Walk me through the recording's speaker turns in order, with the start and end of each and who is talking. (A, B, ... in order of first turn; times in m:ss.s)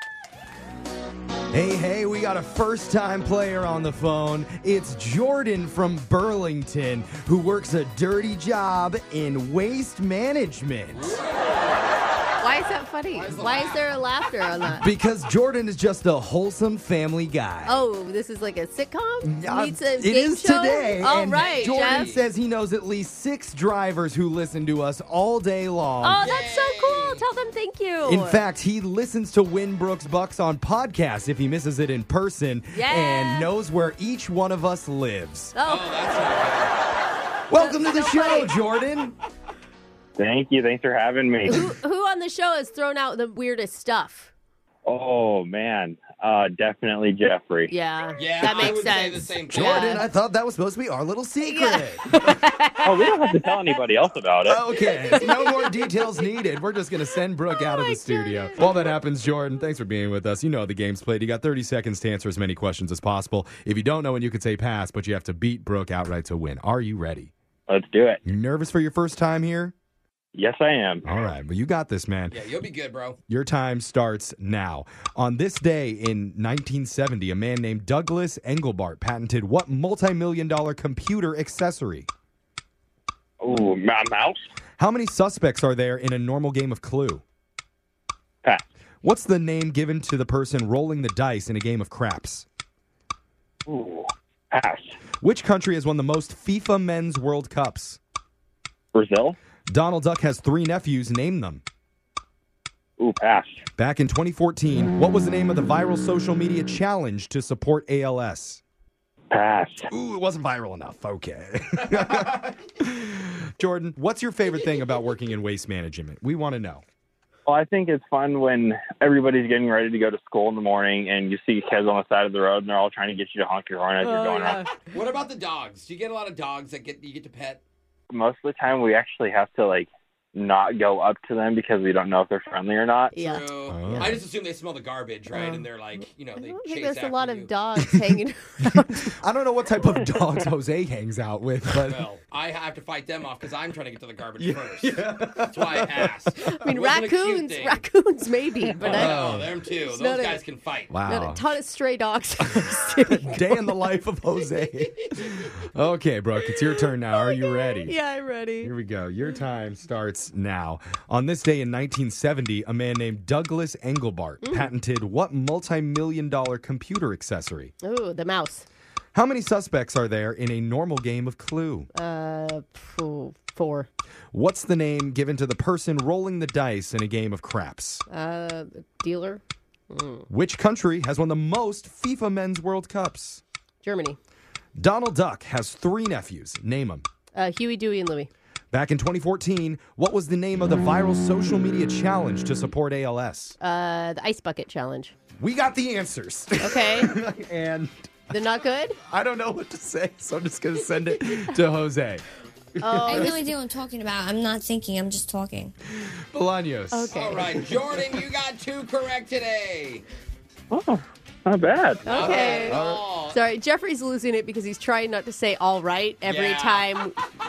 0:01.5-0:11.2 A
0:10.9-0:11.6 B
0:12.4-0:14.9 C
0:13.1-0:13.8 B
0:14.7-0:17.8 A
0:17.6-0:22.1 C
0:19.2-0:26.3 A
0:21.3-0:22.2 B
0:26.0-0:28.4 C
0:26.2-0:27.2 B
0:28.0-0:35.6 A
0:32.7-0:33.5 C
0:35.6-0:36.0 C
0:35.6-0:36.8 B
0:37.5-0:39.2 A
0:37.5-0:38.5 C
0:40.2-0:41.6 D
0:41.5-0:44.3 C
0:44.8-0:47.7 D
0:47.7-0:50.0 C
0:48.2-0:50.0 B
0:49.5-0:52.4 A
0:51.4-0:53.8 C
0:52.8-0:54.6 D
0:54.4-1:07.3 A
0:54.7-0:56.2 C
0:57.5-0:58.9 C
1:07.7-1:08.2 D
1:08.2-1:09.7 A
1:10.3-1:11.0 D
1:11.0-1:12.4 A
1:12.3-1:13.2 B
1:13.3-1:22.1 A
1:23.4-1:24.4 D
1:24.8-1:27.2 A
1:29.0-1:32.5 A
1:33.7-1:34.9 D
1:35.2-1:38.0 A
1:38.9-1:39.4 D
1:39.7-1:41.6 A
1:43.0-1:43.6 D
1:43.8-1:48.6 A
1:49.3-1:49.9 D
1:49.9-1:56.8 A
1:57.5-2:04.6 D
2:04.0-2:04.8 C
2:04.8-2:07.6 B
2:08.1-2:13.1 D
2:13.1-2:14.2 C
2:13.1-2:17.5 B
2:13.7-2:14.2 A
2:15.3-2:15.6 C
2:16.4-2:19.1 C
2:18.6-2:22.0 A
2:21.9-2:27.8 B
2:24.4-2:26.1 A
2:26.5-2:29.2 C
2:28.8-2:30.9 B
2:28.9-2:29.5 A
2:29.8-2:30.4 C
2:30.9-2:31.5 A
2:31.0-2:33.7 C
2:32.5-2:38.0 A
2:37.1-2:38.7 C
2:38.6-2:47.7 A
2:44.4-2:44.7 C
2:47.8-2:48.6 C
2:49.1-2:51.9 A
2:51.9-2:53.9 C
2:54.3-2:58.0 A
2:58.1-3:00.3 C
3:00.3-3:03.4 A
3:03.8-3:04.2 C
3:04.8-3:07.0 A
3:07.3-3:08.3 C
3:08.7-3:13.6 A
3:13.6-3:15.1 C
3:15.4-3:18.0 A
3:16.6-3:17.1 C
3:18.3-3:19.0 C
3:19.1-3:22.2 A
3:22.8-3:23.4 A
3:22.8-3:23.4 C
3:23.0-3:25.7 E
3:26.3-3:27.6 A
3:26.9-3:27.5 C
3:27.1-3:30.0 B
3:30.7-3:32.0 D
3:32.0-3:33.4 B
3:32.0-3:37.2 C
3:32.2-3:33.0 A
3:36.2-3:36.9 B